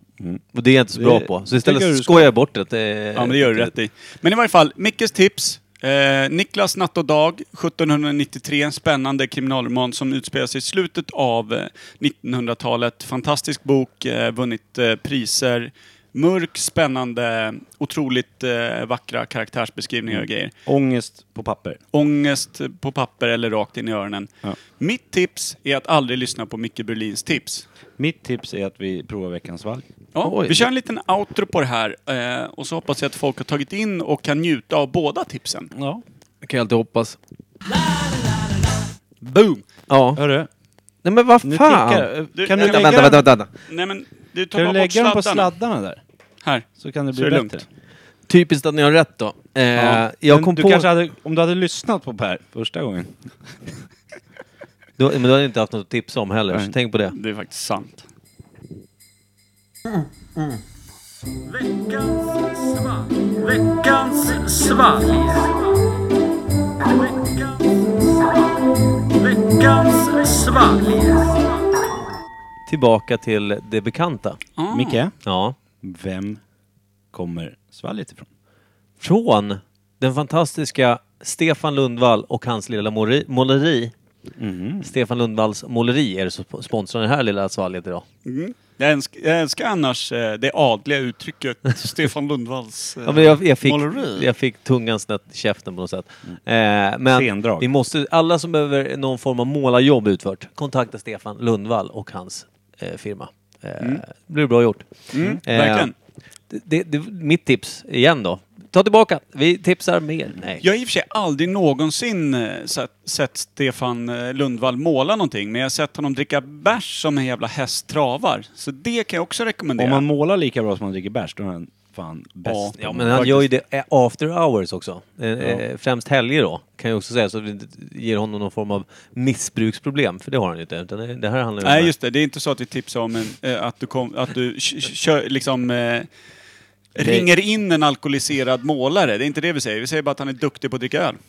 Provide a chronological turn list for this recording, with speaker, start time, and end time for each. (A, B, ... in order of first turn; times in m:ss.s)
0:00.5-0:03.7 A
0:01.0-0:02.3 B
0:03.2-0:20.5 C
0:20.1-0:21.8 B
0:21.9-0:27.6 C
0:28.0-0:29.8 B
0:30.2-0:35.7 C
0:30.2-0:30.7 A
0:35.8-0:36.0 B
0:36.4-0:37.2 A
0:39.2-0:39.6 C
0:39.9-0:40.2 A
0:40.2-0:40.5 B
0:41.0-0:43.5 A
0:41.4-0:43.3 B
0:42.4-0:45.5 C
0:44.6-0:46.0 B
0:46.4-0:47.6 C
0:46.8-0:47.7 B
0:48.3-0:50.9 A
0:49.8-0:53.2 B
0:55.0-0:57.2 A
0:57.1-0:58.1 C
1:01.5-1:05.6 C
1:06.8-1:08.4 C
1:09.0-1:11.5 C
1:12.7-1:14.4 A
1:14.6-1:15.0 C
1:14.7-1:15.1 B
1:15.2-1:15.6 A
1:15.8-1:16.4 B
1:17.1-1:18.3 B
1:19.0-1:23.9 A
1:24.4-1:24.9 B
1:24.8-1:28.0 A
1:28.2-1:34.3 C
1:33.0-1:45.9 A
1:37.1-1:37.7 B
1:45.1-1:45.9 C
1:46.5-1:50.6 A
1:50.6-2:00.0 C
1:59.8-2:03.3 B
2:02.5-2:03.5 C
2:02.8-2:11.9 A
2:11.6-2:16.1 C
2:17.0-2:17.3 B
2:17.0-2:21.2 C